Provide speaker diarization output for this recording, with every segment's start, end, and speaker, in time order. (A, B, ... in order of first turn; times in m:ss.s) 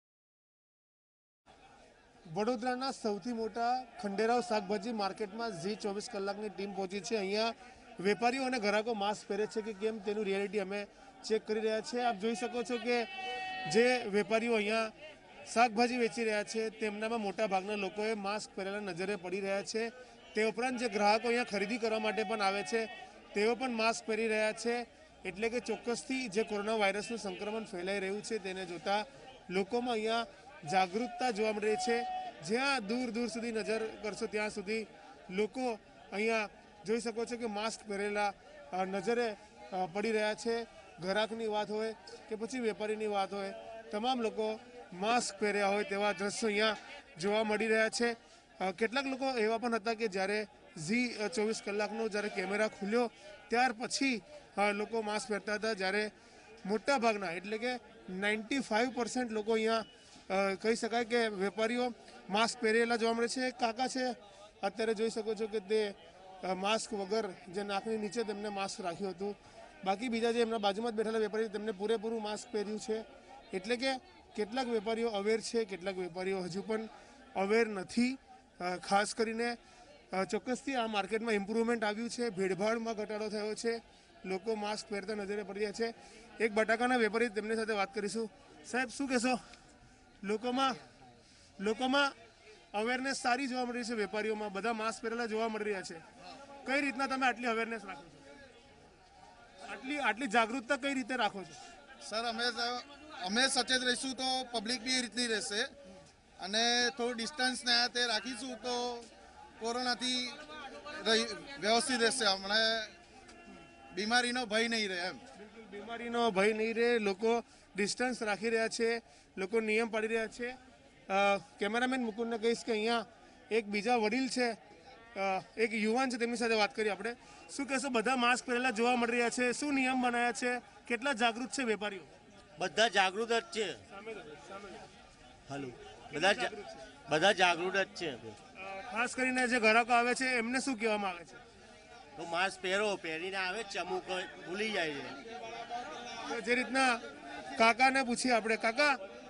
0:02.3-0:13.1 A
0:13.6-0:14.9 A
0:15.5-0:56.1 A
0:56.6-1:19.6 A
1:20.1-1:29.4 A
1:30.2-1:30.8 A
1:31.6-1:32.1 A
1:32.7-1:36.0 A
1:36.6-1:38.2 A
1:39.6-1:41.6 A
1:42.0-1:45.7 B
1:46.4-1:52.9 B
1:53.9-1:55.2 B
1:55.4-2:00.6 A
2:01.1-2:04.6 A
2:05.1-2:12.1 A
2:12.6-2:13.8 C
2:13.9-2:14.9 A
2:15.5-2:16.5 C
2:16.1-2:16.9 A
2:17.1-2:18.4 C
2:18.6-2:21.4 A
2:22.2-2:25.2 C
2:26.2-2:27.0 A
2:27.5-2:29.0 A